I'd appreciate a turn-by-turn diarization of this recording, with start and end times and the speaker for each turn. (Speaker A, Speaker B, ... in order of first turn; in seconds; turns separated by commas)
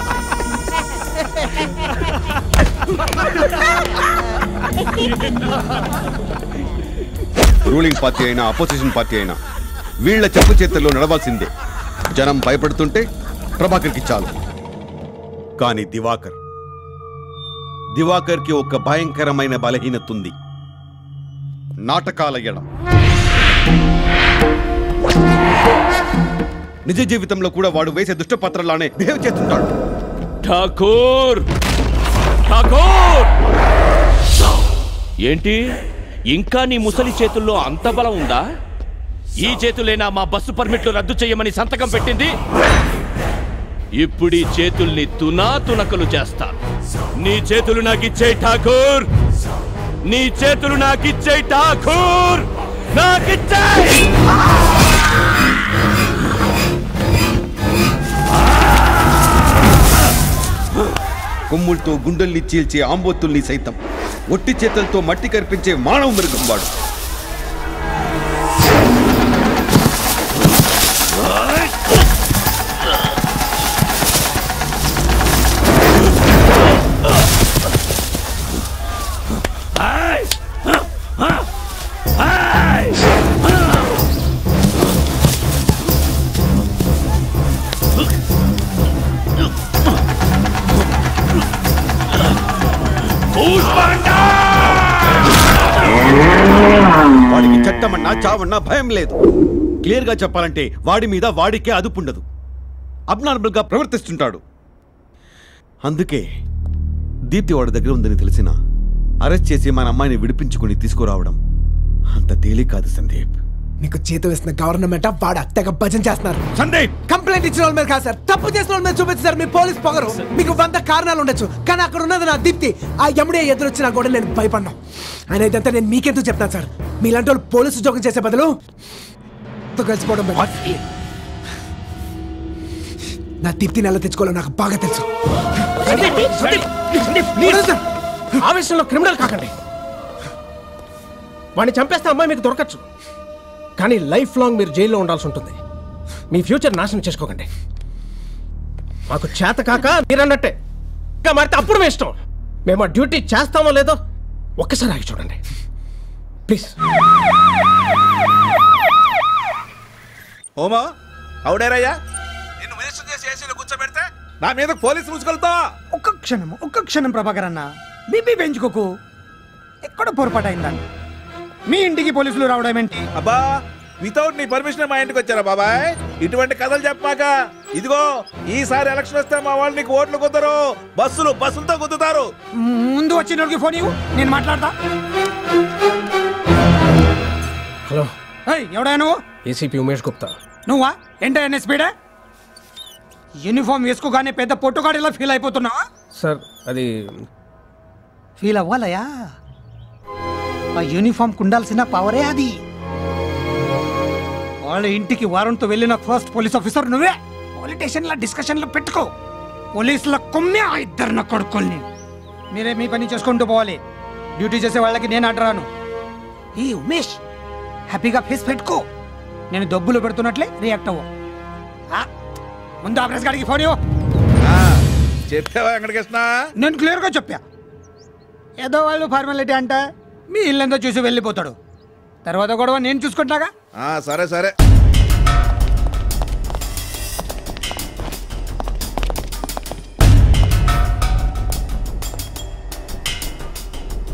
Speaker A: 7.7-9.4, Speaker A: 10.0-11.5, Speaker A: 12.1-13.0, Speaker A: 13.6-14.3, Speaker A: 15.6-16.4, Speaker A: 17.9-20.3, Speaker A: 21.9-22.7, Speaker A: 26.9-29.7, Speaker B: 30.4-31.4, Speaker B: 32.5-33.3, Speaker B: 35.3-35.6, Speaker B: 36.3-38.4, Speaker B: 39.4-42.3, Speaker B: 44.0-46.5, Speaker B: 47.2-49.1, Speaker B: 50.1-54.0, Speaker A: 61.5-63.8, Speaker A: 64.3-66.7, Speaker B: 93.3-94.5, Speaker A: 97.3-99.2, Speaker A: 99.8-102.2, Speaker A: 103.1-104.4, Speaker A: 105.8-106.2, Speaker A: 107.3-108.5, Speaker A: 109.2-111.4, Speaker A: 112.2-113.4, Speaker C: 113.8-116.5, Speaker C: 117.1-124.8, Speaker C: 125.3-128.6, Speaker C: 129.7-130.8, Speaker C: 133.4-135.1, Speaker D: 135.9-136.6, Speaker C: 135.9-136.6, Speaker C: 137.2-137.8, Speaker D: 137.3-137.7, Speaker D: 138.4-139.5, Speaker D: 141.6-142.8, Speaker D: 143.8-145.6, Speaker D: 146.3-147.5, Speaker D: 149.1-150.5, Speaker D: 151.2-152.1, Speaker D: 152.7-154.0, Speaker D: 154.6-155.4, Speaker D: 156.5-156.7, Speaker E: 161.4-161.9, Speaker E: 162.6-165.6, Speaker F: 165.9-168.9, Speaker F: 169.8-170.8, Speaker F: 171.7-173.0, Speaker E: 173.2-173.4, Speaker E: 174.0-182.3, Speaker F: 182.6-184.7, Speaker F: 188.5-189.1, Speaker D: 189.5-190.3, Speaker F: 190.7-191.9, Speaker F: 193.4-195.8, Speaker D: 196.2-196.9, Speaker F: 198.4-199.2, Speaker F: 200.8-202.6, Speaker F: 204.6-209.1, Speaker F: 209.8-211.8, Speaker F: 212.5-213.8, Speaker F: 214.4-215.7, Speaker F: 216.6-217.2, Speaker F: 217.9-218.8, Speaker F: 219.5-221.0, Speaker F: 222.8-223.8, Speaker E: 224.5-224.8, Speaker E: 225.3-226.2, Speaker F: 226.6-227.4, Speaker F: 228.6-229.8, Speaker F: 230.3-231.6, Speaker F: 232.2-233.5, Speaker E: 233.8-234.5